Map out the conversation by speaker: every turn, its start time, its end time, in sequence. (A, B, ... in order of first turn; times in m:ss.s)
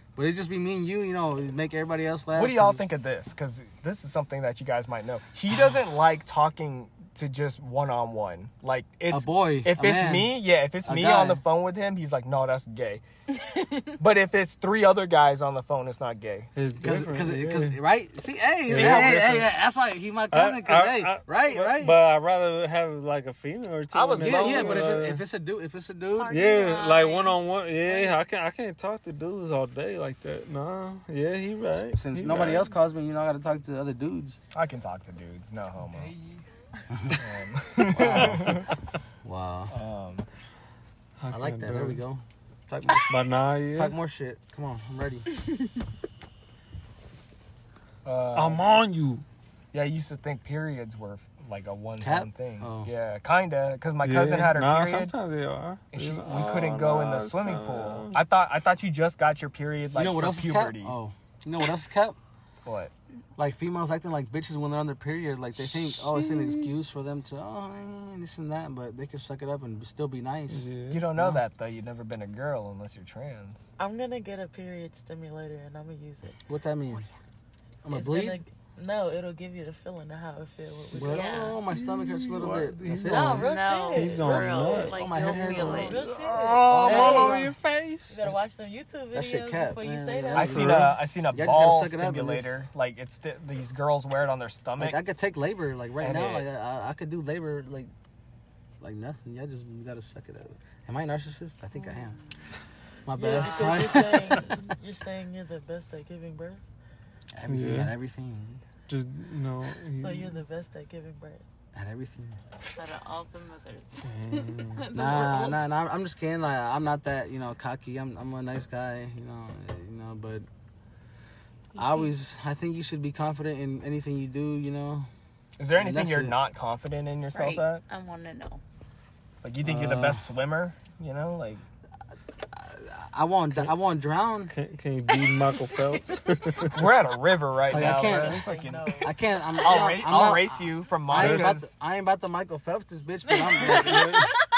0:00.2-0:02.8 A
0:02.4-0:13.0 B
0:09.1-0:11.4 A
0:14.0-0:16.5 B
0:16.6-0:17.8 C
0:16.8-0:22.0 A
0:18.7-0:19.5 C
0:18.7-0:19.5 B
0:20.3-0:25.2 C
0:23.9-0:25.0 B
0:24.2-0:26.4 A
0:26.2-0:28.2 D
0:26.3-0:32.7 C
0:31.9-0:34.4 A
0:34.5-0:36.2 B
0:36.9-0:37.2 A
0:37.1-0:38.8 B
0:37.9-0:38.7 A
0:38.0-0:38.7 C
0:39.2-0:39.7 A
0:39.7-0:40.3 B
0:41.2-0:42.0 C
0:41.3-0:45.3 A
0:43.1-0:44.0 C
0:48.0-0:48.6 B
0:48.3-0:49.2 C
0:49.7-0:55.2 B
0:52.0-0:52.9 A
0:54.0-0:58.2 C
0:55.9-1:01.0 B
1:00.0-1:02.2 A
1:02.6-1:02.9 B
1:03.4-1:11.4 A
1:05.6-1:06.7 C
1:10.5-1:11.1 C
1:10.9-1:13.7 B
1:13.8-1:16.4 E
1:16.5-1:17.1 A
1:17.8-1:18.4 A
1:17.9-1:21.6 E
1:20.8-1:28.3 C
1:20.9-1:23.5 A
1:21.0-1:21.6 D
1:23.0-1:24.7 E
1:23.3-1:26.0 D
1:24.6-1:26.0 A
1:25.5-1:27.5 E
1:26.8-1:27.5 A
1:28.1-1:30.8 E
1:29.1-1:32.6 A
1:30.4-1:35.0 B
1:34.8-1:37.9 A
1:36.0-1:36.5 B
1:38.8-1:42.2 A
1:41.8-1:42.4 D
1:43.1-1:44.7 A
1:43.2-1:44.7 D
1:43.2-1:46.6 E
1:47.3-1:48.6 A
1:47.5-1:48.0 C
1:48.9-1:50.4 C
1:49.9-1:51.4 E
1:51.7-1:52.4 A
1:52.7-1:55.7 D
1:54.0-1:54.9 C
1:54.9-2:00.5 A
2:01.8-2:02.1 D
2:01.8-2:05.1 A
2:05.6-2:07.8 B
2:05.7-2:06.4 A
2:07.3-2:08.6 D
2:09.4-2:11.6 B
2:09.6-2:10.2 C
2:12.5-2:14.5 A
2:14.5-2:17.0 C
2:15.4-2:15.9 D
2:16.7-2:21.7 B
2:17.7-2:18.5 A
2:17.9-2:19.2 E
2:19.0-2:24.3 A
2:21.2-2:21.6 C
2:23.3-2:24.3 D
2:23.6-2:24.4 C